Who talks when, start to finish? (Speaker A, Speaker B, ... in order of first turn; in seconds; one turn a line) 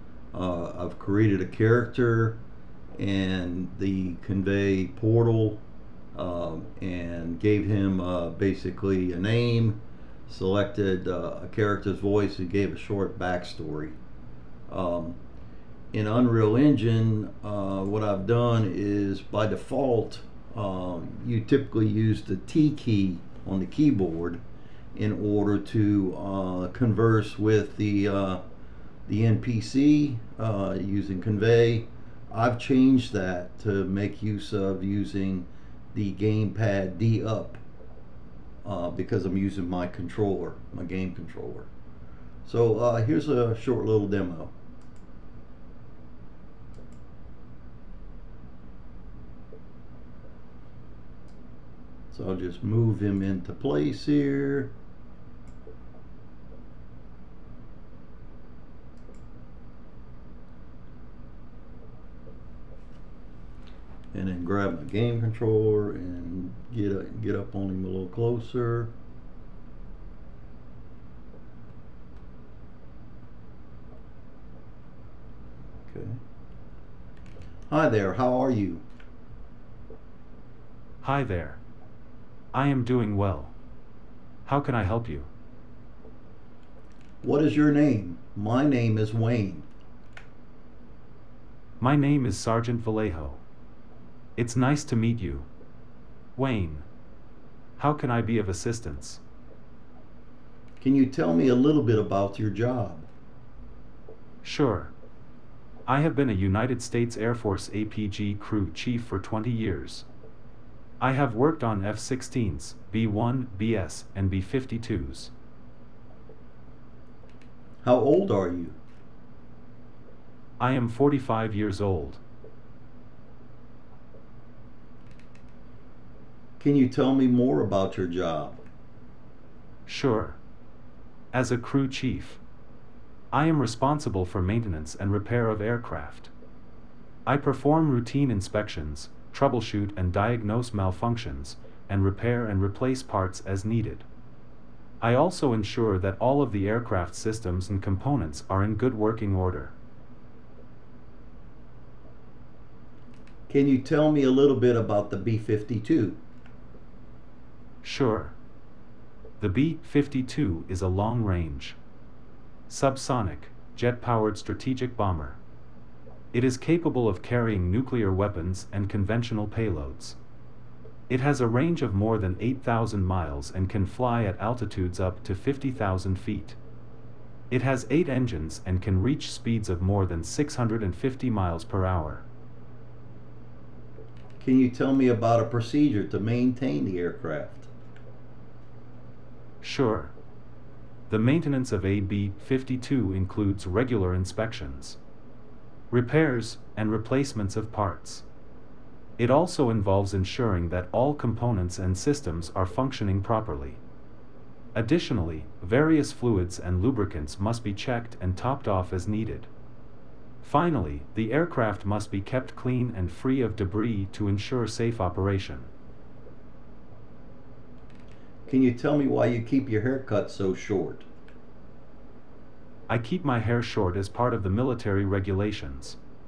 Speaker A: 0.3-2.4
Speaker A: 2.9-14.0
Speaker A: 14.7-15.2
Speaker A: 15.9-24.4
Speaker A: 24.9-28.4
Speaker A: 29.1-37.6
Speaker A: 38.6-41.7
Speaker A: 42.4-44.5
Speaker A: 52.1-54.7
Speaker A: 64.1-68.9
Speaker A: 75.9-76.2
Speaker A: 77.7-78.8
Speaker B: 81.0-81.6
Speaker B: 82.5-83.5
Speaker B: 84.4-85.3
Speaker A: 87.2-89.7
Speaker B: 91.8-93.4
Speaker B: 94.4-95.5
Speaker B: 96.3-96.9
Speaker B: 97.8-99.2
Speaker A: 100.8-103.1
Speaker B: 104.4-104.9
Speaker B: 105.9-110.1
Speaker B: 111.0-115.3
Speaker A: 117.8-118.8
Speaker B: 120.6-122.2
Speaker A: 126.6-128.6
Speaker B: 129.9-130.4
Speaker B: 131.3-132.4
Speaker B: 133.3-136.3
Speaker B: 137.2-144.1
Speaker B: 145.0-149.7
Speaker A: 153.5-156.2
Speaker B: 157.8-158.3
Speaker B: 159.4-161.8
Speaker B: 162.7-165.4
Speaker B: 166.3-170.2
Speaker B: 171.1-176.6
Speaker B: 177.5-182.2
Speaker A: 184.4-187.7
Speaker B: 189.6-190.1
Speaker B: 191.1-195.0
Speaker B: 195.9-198.2
Speaker B: 199.2-203.8
Speaker B: 204.7-209.5
Speaker B: 210.4-215.7
Speaker A: 218.5-221.1
Speaker B: 222.9-226.0